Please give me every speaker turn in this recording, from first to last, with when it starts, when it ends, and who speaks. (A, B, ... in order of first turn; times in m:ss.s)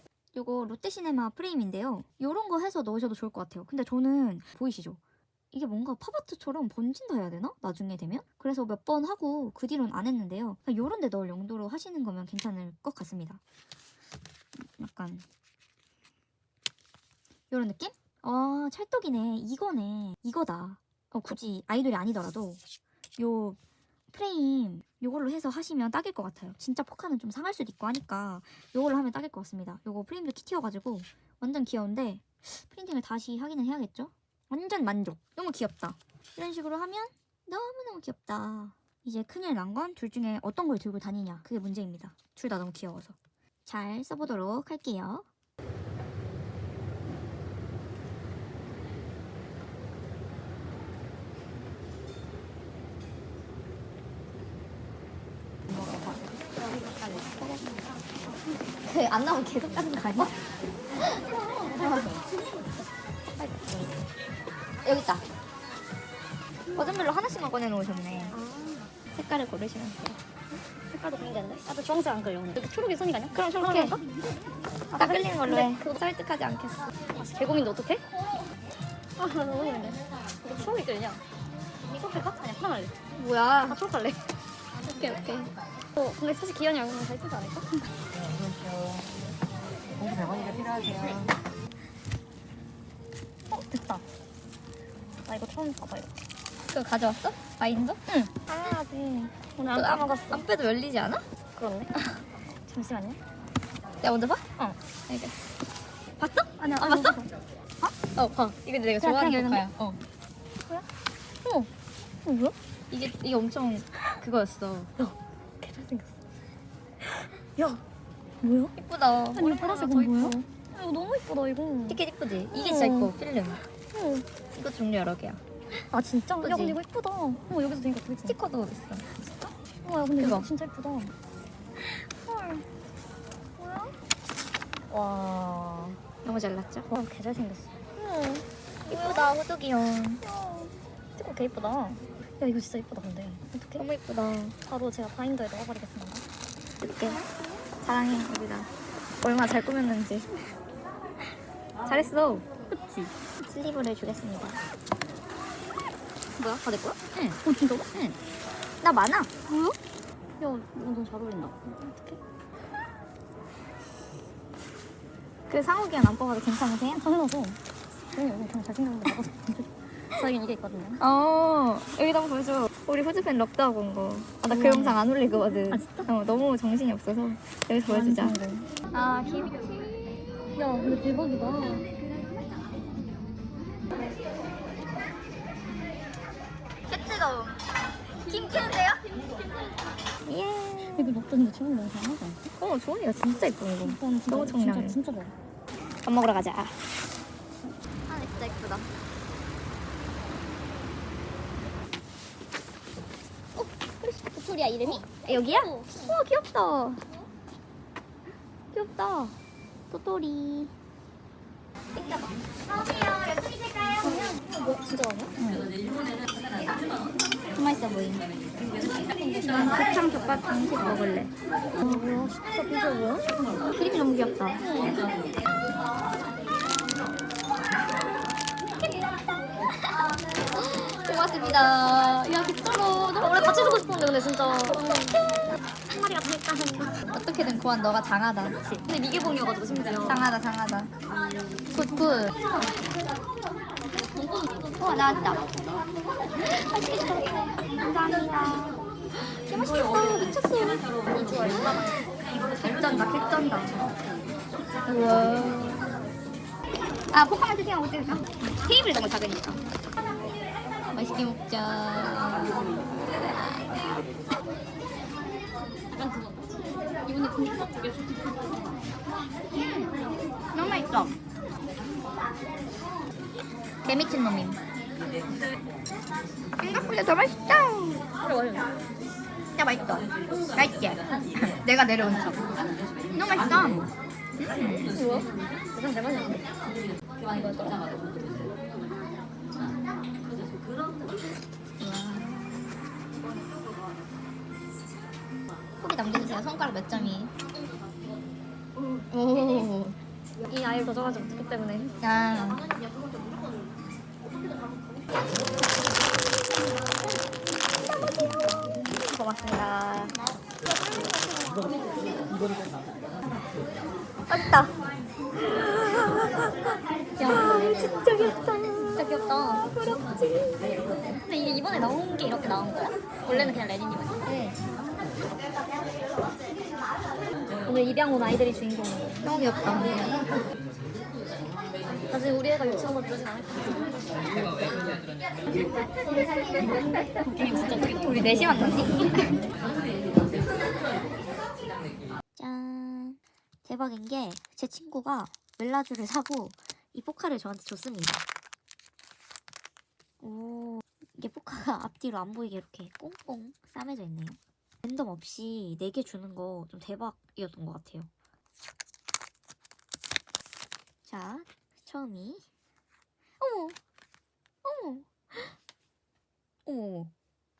0:00.3-0:05.0 A
0:05.5-0:13.4 A
0:14.6-0:15.2 A
0:17.5-0:22.6 A
0:23.2-0:23.6 A
0:24.1-0:45.3 A
0:55.8-0:56.2 A
0:57.1-0:57.6 A
0:58.8-1:00.4 A
1:01.0-1:02.1 A
1:01.8-1:02.2 B
1:03.4-1:04.0 A
1:04.8-1:05.3 A
1:06.7-1:08.4 A
1:08.3-1:08.9 B
1:09.1-1:10.2 A
1:10.9-1:14.0 B
1:13.3-1:14.0 A
1:14.9-1:16.0 B
1:15.0-1:16.9 A
1:17.2-1:18.0 B
1:19.2-1:21.2 B
1:21.9-1:23.0 B
1:23.2-1:23.8 A
1:23.6-1:24.3 B
1:24.9-1:25.5 A
1:26.0-1:27.9 B
1:30.3-1:31.0 B
1:30.7-1:31.2 A
1:33.5-1:34.0 B
1:35.3-1:36.2 B
1:36.7-1:41.2 A
1:38.2-1:40.4 B
1:41.6-1:41.9 B
1:42.7-1:43.2 B
1:44.0-1:44.5 A
1:45.1-1:45.4 A
1:46.2-1:47.2 A
1:46.6-1:47.3 B
1:47.8-1:50.0 A
1:49.0-1:49.8 B
1:51.4-1:51.7 B
1:52.2-1:52.6 B
1:52.9-1:54.9 A
1:55.0-1:56.2 B
1:58.4-1:58.7 B
1:58.7-2:00.4 A
1:59.3-2:02.0 B
2:01.9-2:03.6 A
2:02.5-2:03.1 B
2:03.9-2:04.3 B
2:04.5-2:05.4 A
2:05.9-2:08.4 B
2:06.4-2:06.8 A
2:08.2-2:09.2 A
2:09.8-2:11.1 B
2:10.2-2:10.5 A
2:12.2-2:12.7 B
2:13.6-2:14.0 B
2:14.9-2:16.0 B
2:16.2-2:16.9 A
2:16.9-2:19.3 B
2:18.9-2:20.2 A
2:20.2-2:23.8 B
2:23.8-2:24.6 A
2:24.7-2:26.2 B
2:26.8-2:27.3 A
2:27.8-2:28.7 A
2:29.2-2:30.3 A
2:31.8-2:32.5 A
2:32.7-2:33.1 B
2:33.4-2:34.6 A
2:36.4-2:37.8 B
2:37.9-2:38.2 A
2:38.8-2:39.3 A
2:39.5-2:39.7 B
2:40.4-2:42.2 B
2:45.5-2:47.0 A
2:47.0-2:47.6 B
2:48.2-2:51.0 B
2:51.0-2:58.4 A
2:54.5-2:55.1 B
2:55.7-2:56.1 B
2:57.9-2:58.7 B
2:58.9-2:59.6 A
3:00.5-3:01.9 B
3:06.9-3:07.6 A
3:08.2-3:09.0 A
3:10.3-3:11.1 A
3:10.9-3:12.4 B
3:12.6-3:15.0 A
3:13.8-3:15.3 B
3:16.0-3:16.8 A
3:18.1-3:18.9 A
3:23.6-3:26.0 B
3:24.8-3:27.1 A
3:28.7-3:29.4 A
3:29.9-3:30.7 A
3:33.0-3:33.3 A
3:34.0-3:35.4 B
3:35.4-3:35.7 A
3:37.5-3:38.3 A
3:38.8-3:39.9 B
3:39.5-3:41.3 A
3:41.8-3:43.3 B
3:43.7-3:44.6 A
3:44.6-3:45.1 B
3:50.5-3:53.8 A
3:53.2-3:57.0 B
3:57.0-3:58.8 A
3:58.8-4:00.2 B
4:00.0-4:00.9 A
4:01.7-4:02.4 A
4:04.2-4:04.5 B
4:04.8-4:05.7 A
4:06.4-4:08.8 A
4:09.4-4:12.0 A
4:11.1-4:12.0 B
4:12.6-4:13.8 A
4:14.8-4:15.8 A
4:17.1-4:19.6 A
4:20.9-4:23.9 A
4:25.9-4:28.4 B
4:29.5-4:29.9 A
4:30.5-4:31.2 A
4:33.8-4:34.6 A
4:36.6-4:38.1 A
4:38.2-4:38.7 B
4:39.6-4:42.4 A
4:43.1-4:44.9 A
4:44.9-4:46.4 B
4:47.2-4:47.9 B
4:51.8-4:52.6 A
4:55.8-4:57.3 A
4:59.1-5:00.0 A
5:00.4-5:02.0 B
5:02.0-5:02.6 A
5:09.0-5:10.2 A
5:10.9-5:12.2 B
5:14.3-5:14.7 A
5:15.3-5:20.5 A
5:17.2-5:18.0 B
5:19.0-5:19.6 B
5:21.1-5:24.2 B
5:24.2-5:24.6 A
5:27.6-5:29.2 B
5:29.2-5:30.2 A
5:32.1-5:34.3 B
5:37.2-5:38.6 B
5:37.7-5:39.4 A
5:42.4-5:48.2 A
5:50.2-5:58.1 A
6:01.0-6:02.4 A
6:03.4-6:03.8 A
6:04.6-6:05.5 A
6:06.6-6:07.1 A